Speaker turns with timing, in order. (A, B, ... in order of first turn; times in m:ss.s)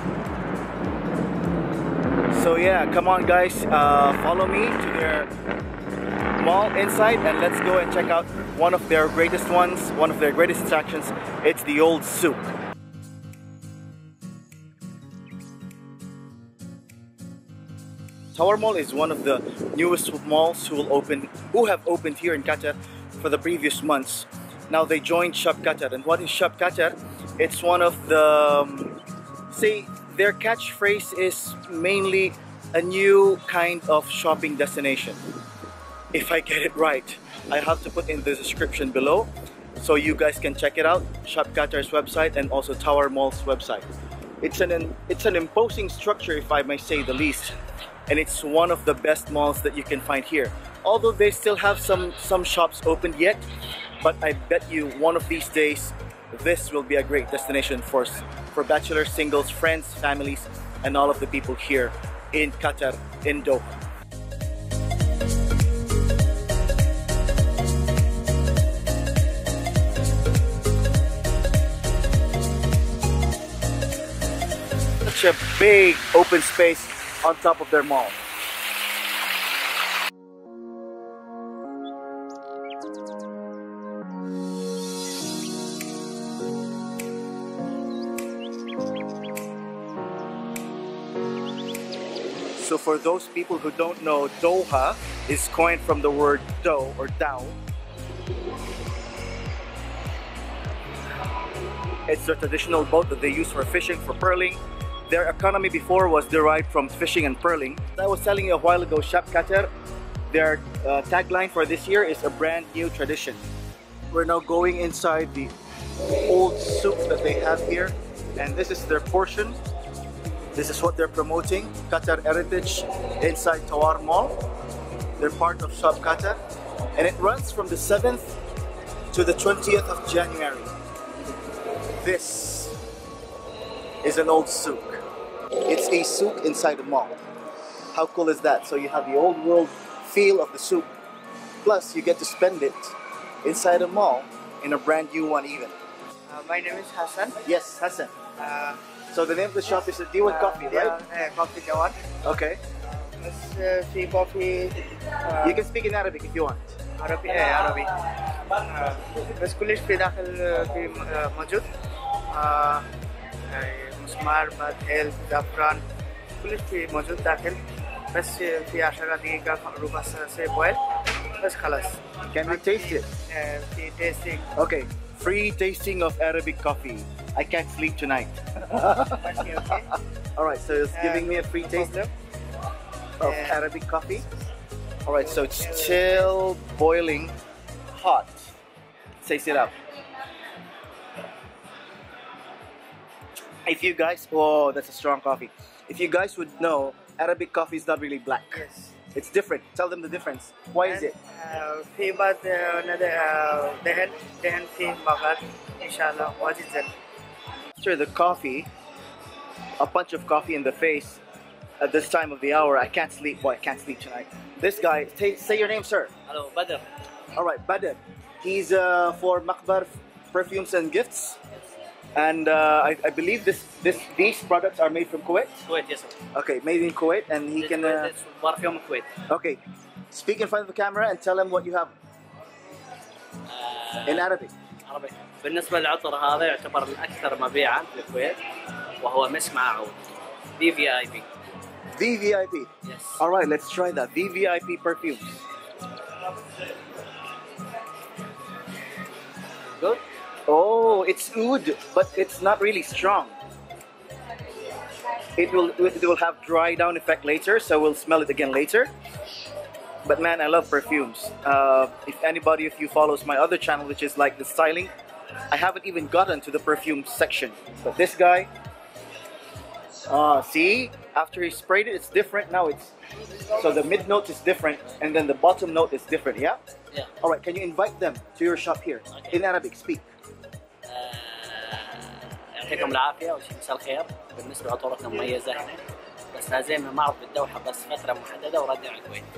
0:02.3-0:05.3 A
0:06.4-0:12.5 A
0:18.3-0:35.2 A
0:36.1-0:43.9 A
0:44.4-0:47.5 A
0:48.1-0:53.4 A
0:54.0-1:03.8 A
1:15.0-1:18.2 A
1:32.5-1:37.6 A
1:42.1-1:49.7 A
1:50.3-1:53.4 A
1:54.1-1:55.5 A
1:56.2-1:59.6 A
2:00.5-2:04.4 A
2:05.2-2:06.4 A
2:07.0-2:08.4 A
2:09.1-2:10.7 A
2:12.0-2:12.8 A
2:14.0-2:15.0 A
2:15.7-2:17.2 A
2:17.9-2:20.9 A
2:21.6-2:25.7 A
2:26.3-2:27.3 B
2:27.4-2:28.2 A
2:28.4-2:28.8 B
2:29.1-2:31.0 A
2:30.4-2:31.9 B
2:32.2-2:32.6 A
2:33.2-2:34.7 B
2:35.4-2:36.8 A
2:37.0-2:37.8 B
2:38.8-2:41.6 B
2:42.3-2:42.8 B
2:43.6-2:45.8 B
2:46.4-2:47.6 B
2:48.1-2:50.8 B
2:51.4-2:54.4 B
2:52.3-2:53.1 A
2:54.5-2:59.4 A
3:00.4-3:02.0 A
3:01.0-3:02.1 B
3:03.2-3:04.2 A
3:03.2-3:03.5 B
3:05.0-3:07.3 A
3:05.7-3:05.9 B
3:07.9-3:08.5 A
3:09.2-3:09.7 A
3:13.6-3:21.2 A
3:21.0-3:26.8 B
3:27.8-3:28.7 A
3:29.8-3:31.2 A
3:31.8-3:36.1 A
3:36.3-3:36.8 C
3:37.3-3:41.4 A
3:42.1-3:45.6 A
3:45.7-3:46.1 C
3:46.3-3:48.1 A
3:47.6-3:49.1 C
3:49.3-3:49.6 A
3:50.1-3:51.9 A
3:53.5-3:58.4 C
3:54.0-3:54.5 A
3:59.0-4:00.0 C
4:00.6-4:01.3 C
4:01.9-4:05.4 A
4:02.8-4:03.2 C
4:10.5-4:13.4 A
4:15.4-4:18.9 A
4:20.0-4:24.9 A
4:25.5-4:28.5 A
4:30.0-4:32.9 A
4:33.5-4:36.6 A
4:37.2-4:40.0 A
4:39.1-4:39.5 C
4:40.9-4:42.0 C
4:42.6-4:45.8 C
4:46.3-4:49.2 C